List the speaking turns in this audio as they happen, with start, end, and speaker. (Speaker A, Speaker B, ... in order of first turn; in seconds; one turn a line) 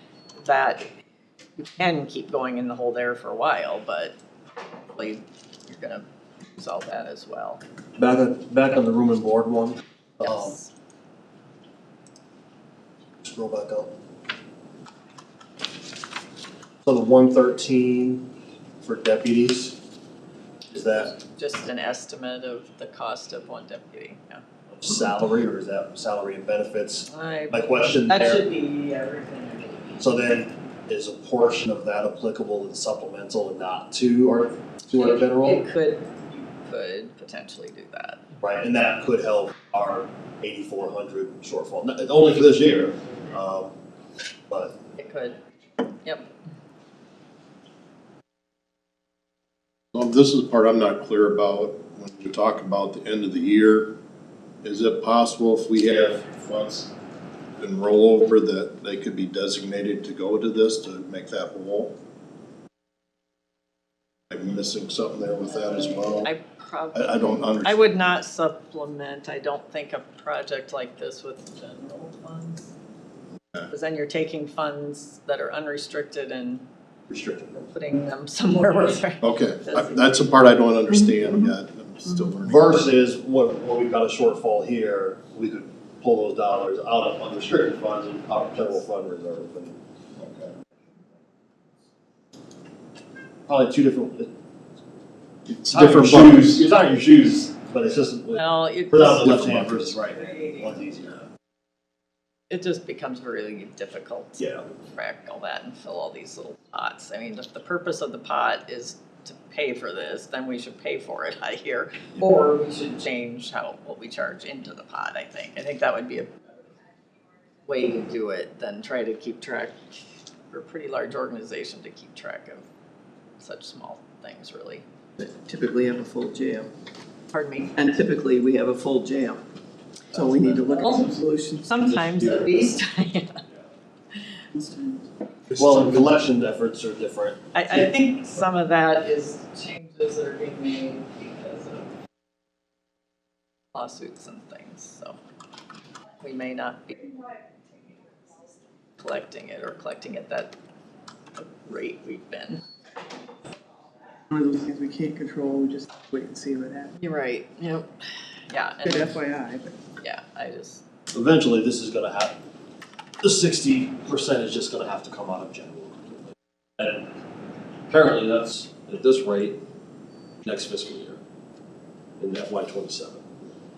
Speaker A: 0.4-0.9
Speaker A: 1.6-4.1
Speaker A: 4.9-6.0
Speaker A: 6.5-7.6
Speaker B: 8.0-10.6
Speaker A: 10.2-10.7
Speaker B: 13.2-13.9
Speaker B: 16.8-19.8
Speaker B: 20.7-21.1
Speaker A: 21.1-24.4
Speaker B: 24.7-28.4
Speaker A: 27.1-30.0
Speaker B: 30.0-35.6
Speaker A: 35.0-38.2
Speaker B: 38.4-43.7
Speaker B: 44.5-44.8
Speaker A: 45.0-45.4
Speaker C: 49.9-54.0
Speaker C: 54.6-56.9
Speaker C: 57.6-61.9
Speaker C: 64.3-66.3
Speaker A: 65.6-72.7
Speaker C: 66.9-68.0
Speaker A: 73.7-76.6
Speaker B: 77.1-77.7
Speaker A: 77.7-80.3
Speaker C: 79.2-82.8
Speaker B: 82.5-89.8
Speaker C: 90.2-90.5
Speaker B: 93.5-94.3
Speaker C: 95.5-96.7
Speaker B: 95.7-101.2
Speaker A: 98.3-100.7
Speaker C: 99.1-99.9
Speaker A: 102.5-116.5
Speaker B: 104.4-104.6
Speaker A: 117.7-119.8
Speaker A: 120.5-122.7
Speaker A: 123.4-124.8
Speaker D: 125.2-126.7
Speaker A: 127.3-127.8
Speaker D: 127.8-129.4
Speaker D: 130.1-132.0
Speaker A: 130.3-133.4
Speaker D: 134.5-135.0
Speaker C: 135.5-135.8
Speaker B: 135.6-137.8
Speaker A: 137.5-141.9
Speaker A: 143.7-145.2
Speaker A: 146.2-147.3
Speaker A: 149.0-150.5
Speaker A: 151.4-152.6
Speaker D: 154.3-157.0
Speaker A: 157.0-158.0
Speaker A: 158.5-159.2
Speaker D: 158.8-159.8
Speaker A: 160.0-160.8
Speaker B: 161.1-162.4
Speaker B: 163.2-167.1
Speaker B: 167.9-169.6
Speaker B: 170.4-171.2
Speaker B: 172.2-173.2